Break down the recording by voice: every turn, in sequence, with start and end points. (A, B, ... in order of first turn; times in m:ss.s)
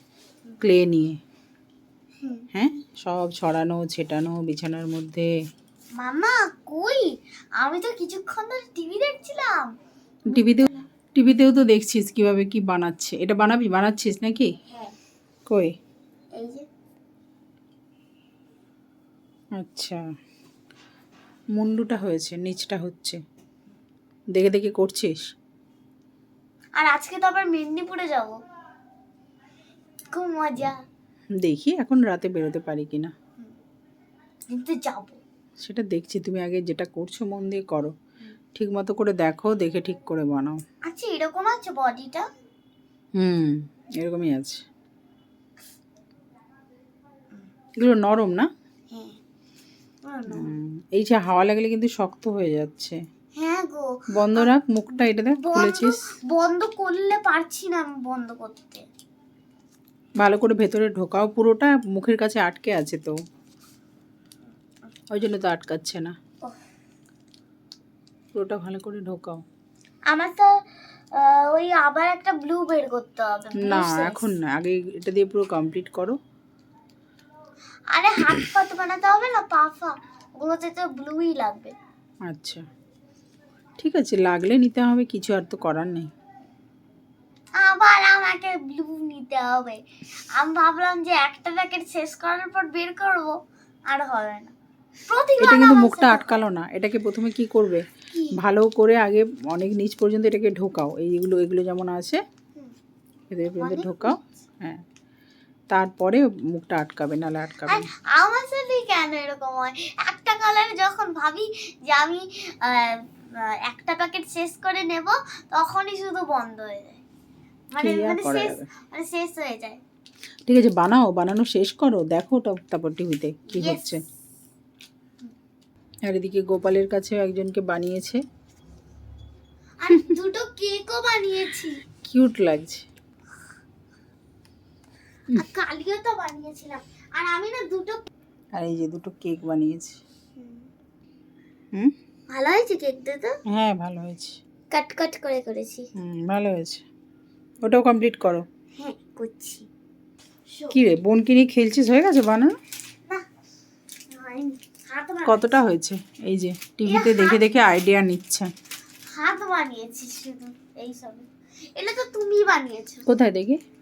0:00.6-0:01.2 A
0:02.2-0:02.5 B
0:02.5-0:05.3 A
0:06.0-0:09.7 B
0:10.3-0:14.5 A
0:10.3-0:10.7 B
0:14.7-0:14.9 B
0:15.5-0:15.7 A
0:16.3-0:16.6 B
0:19.6-0:20.0 A
0:21.6-0:23.2 A
0:24.3-0:25.2 A
0:26.8-0:28.4 B
0:30.1-0:30.8 B
0:31.4-0:33.1 A
0:34.5-0:35.2 B
0:35.6-0:37.9 A
0:38.5-0:40.6 A
0:40.8-0:42.3 B
0:43.2-0:44.6 A
0:47.8-0:48.5 A
0:48.9-0:49.2 B
0:50.0-0:50.5 B
0:50.3-0:53.0 A
0:53.4-0:54.5 B
0:54.1-0:56.0 A
0:55.3-0:58.8 B
1:00.2-1:03.2 A
1:05.1-1:06.1 A
1:08.3-1:09.4 A
1:10.1-1:14.2 B
1:13.6-1:16.2 A
1:17.9-1:21.8 B
1:22.3-1:22.6 A
1:23.8-1:26.1 A
1:27.6-1:29.8 B
1:30.3-1:33.4 B
1:33.9-1:34.5 B
1:35.1-1:36.4 B
1:35.4-1:42.2 A
1:38.1-1:38.4 B
1:43.3-1:44.8 A
1:43.6-1:44.2 B
1:45.7-1:47.9 A
1:47.7-1:57.0 B
1:57.7-1:59.8 B
1:57.8-1:58.7 A
2:00.5-2:04.0 A
2:03.5-2:03.8 B
2:06.1-2:08.2 A
2:09.8-2:11.8 B
2:12.0-2:12.8 A
2:15.3-2:18.1 B
2:18.6-2:20.0 A
2:20.4-2:20.7 B
2:22.3-2:23.4 B
2:23.5-2:24.4 A
2:24.7-2:25.9 B
2:26.0-2:26.8 A
2:27.6-2:28.4 A
2:28.8-2:29.7 B
2:30.5-2:30.8 B
2:30.7-2:32.5 A
2:34.1-2:35.5 B
2:35.2-2:38.5 A
2:36.8-2:37.4 B
2:39.1-2:43.0 B
2:43.1-2:43.6 A